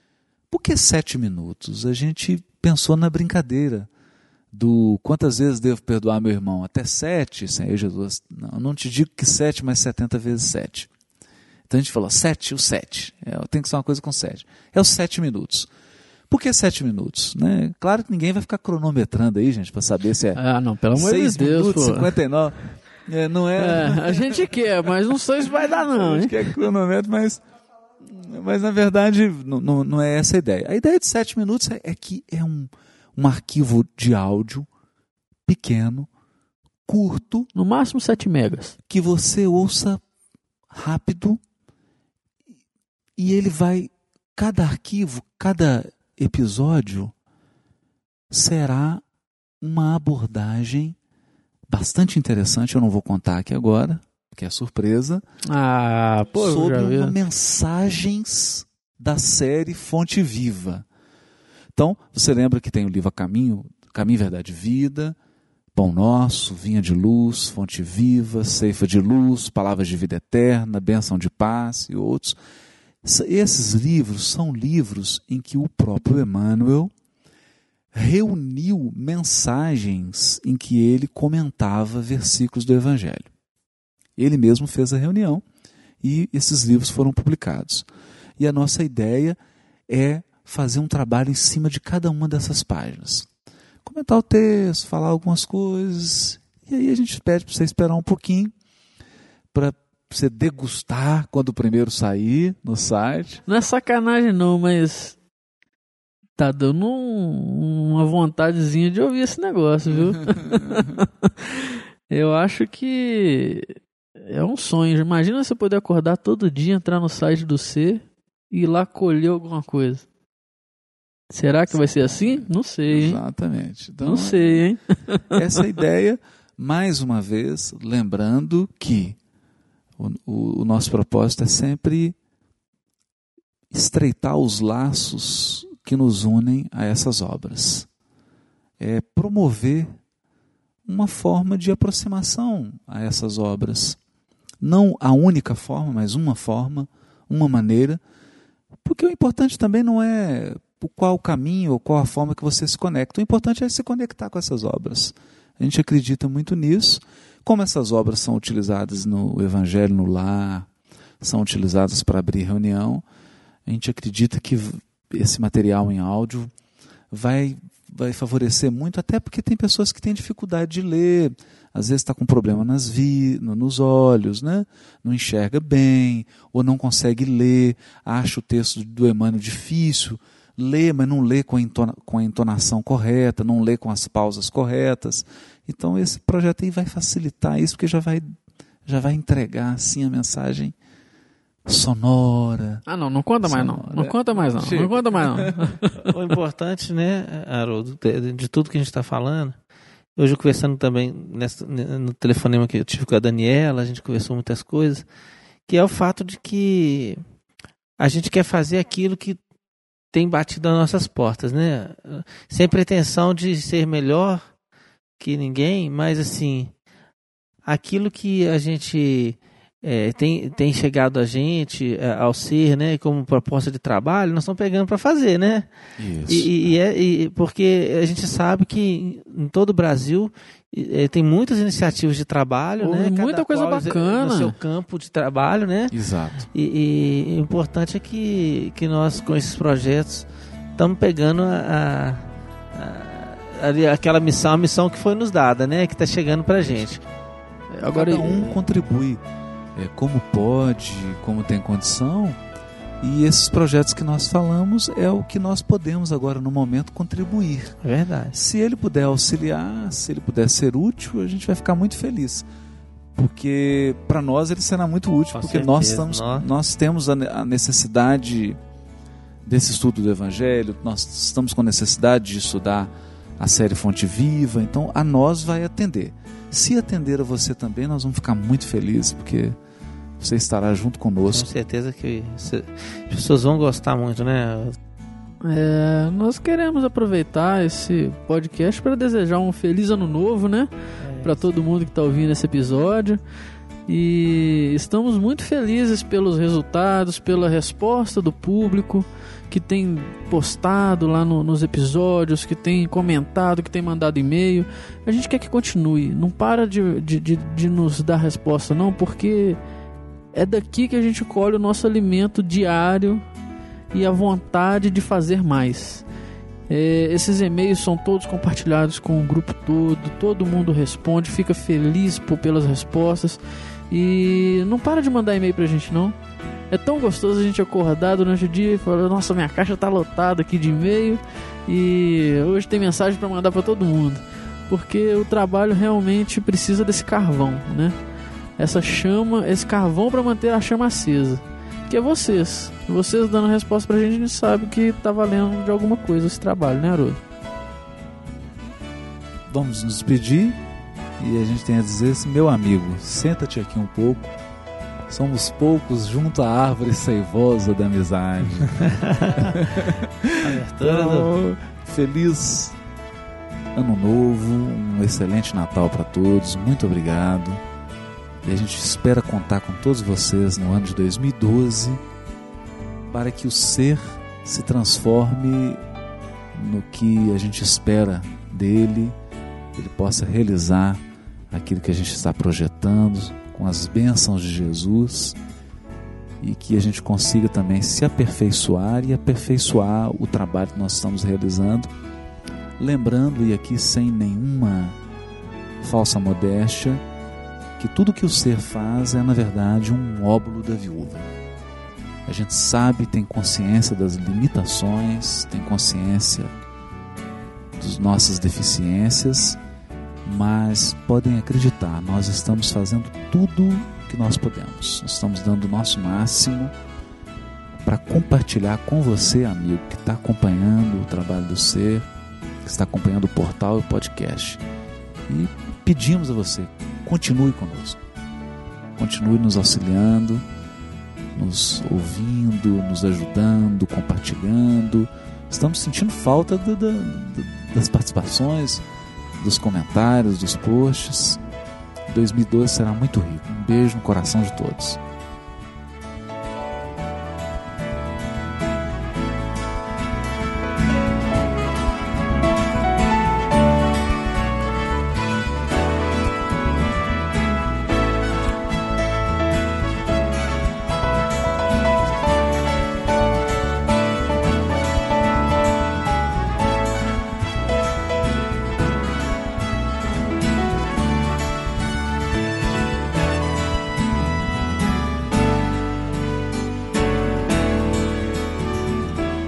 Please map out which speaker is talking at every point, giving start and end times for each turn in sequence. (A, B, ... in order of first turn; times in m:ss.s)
0:00.5-0:03.9 A
0:04.5-0:10.9 A
0:11.7-0:15.7 A
0:16.3-0:20.4 A
0:20.3-0:22.1 B
0:20.9-0:24.5 A
0:23.6-0:26.5 B
0:25.7-0:27.4 A
0:28.1-0:34.7 A
0:35.5-0:36.1 A
0:36.8-0:37.5 A
0:37.5-0:38.8 B
0:38.9-0:40.0 A
0:40.7-0:41.4 A
0:43.2-0:47.1 A
0:48.3-0:49.0 A
0:49.6-0:51.0 A
0:51.7-0:55.2 A
0:55.5-0:57.2 B
0:56.3-1:00.8 A
1:01.7-1:05.2 A
1:05.7-1:12.4 A
1:13.0-1:16.9 A
1:17.9-1:23.3 A
1:24.2-1:25.4 A
1:26.0-1:27.8 A
1:28.4-1:29.4 A
1:29.9-1:33.3 A
1:33.8-1:38.5 A
1:39.5-1:43.4 A
1:43.5-1:45.2 B
1:46.4-2:00.0 B
2:01.3-2:03.2 B
2:01.7-2:04.7 A
2:04.0-2:05.3 B
2:05.3-2:09.2 A
2:10.0-2:12.2 A
2:13.7-2:17.9 A
2:18.8-2:19.9 A
2:20.8-2:24.0 A
2:24.6-2:28.0 A
2:28.8-2:40.7 A
2:41.2-2:43.0 A
2:43.7-2:46.5 A
2:47.1-3:08.3 A
3:08.8-3:10.7 A
3:11.6-3:12.8 A
3:12.9-3:16.1 B
3:13.4-3:15.7 A
3:16.1-3:19.6 C
3:20.2-3:25.0 C
3:25.7-3:27.2 C
3:28.0-3:29.4 C
3:30.1-3:34.5 C
3:35.2-3:36.7 C
3:37.6-3:45.7 C
3:46.0-3:46.7 A
3:46.3-4:07.0 C
3:52.8-3:54.6 B
3:55.9-3:56.5 A
4:07.7-4:08.6 B
4:07.9-4:09.2 A
4:09.8-4:12.4 A
4:13.0-4:17.8 A
4:17.8-4:18.4 C
4:18.3-4:22.5 A
4:23.2-4:28.6 A
4:25.3-4:26.5 C
4:29.4-4:39.6 A
4:40.2-4:41.5 A
4:41.3-4:44.8 C
4:45.4-4:53.2 B
4:51.0-4:51.4 C
4:53.9-5:09.6 B
5:10.3-5:13.2 B
5:13.9-5:16.1 B
5:16.7-5:26.2 B
5:26.7-5:38.0 B
5:38.6-5:47.2 B
5:49.5-5:50.6 A
5:51.2-5:54.3 A
5:55.1-6:02.8 A
5:58.8-5:59.5 C
6:00.4-6:01.3 C
6:03.7-6:07.6 A
6:08.4-6:12.0 A
6:13.1-6:15.8 A
6:16.5-6:19.2 A
6:19.7-6:21.0 A
6:21.5-6:25.4 A
6:26.4-6:31.9 A
6:32.8-6:35.0 A
6:35.8-6:37.0 A
6:37.8-6:41.3 A
6:42.2-6:46.5 A
6:47.8-6:49.6 A
6:50.2-6:56.7 A
6:57.8-7:02.1 A
7:02.6-7:04.6 A
7:05.3-7:08.0 A
7:09.0-7:10.4 A
7:11.3-7:18.8 A
7:19.4-7:21.4 A
7:22.1-7:25.0 A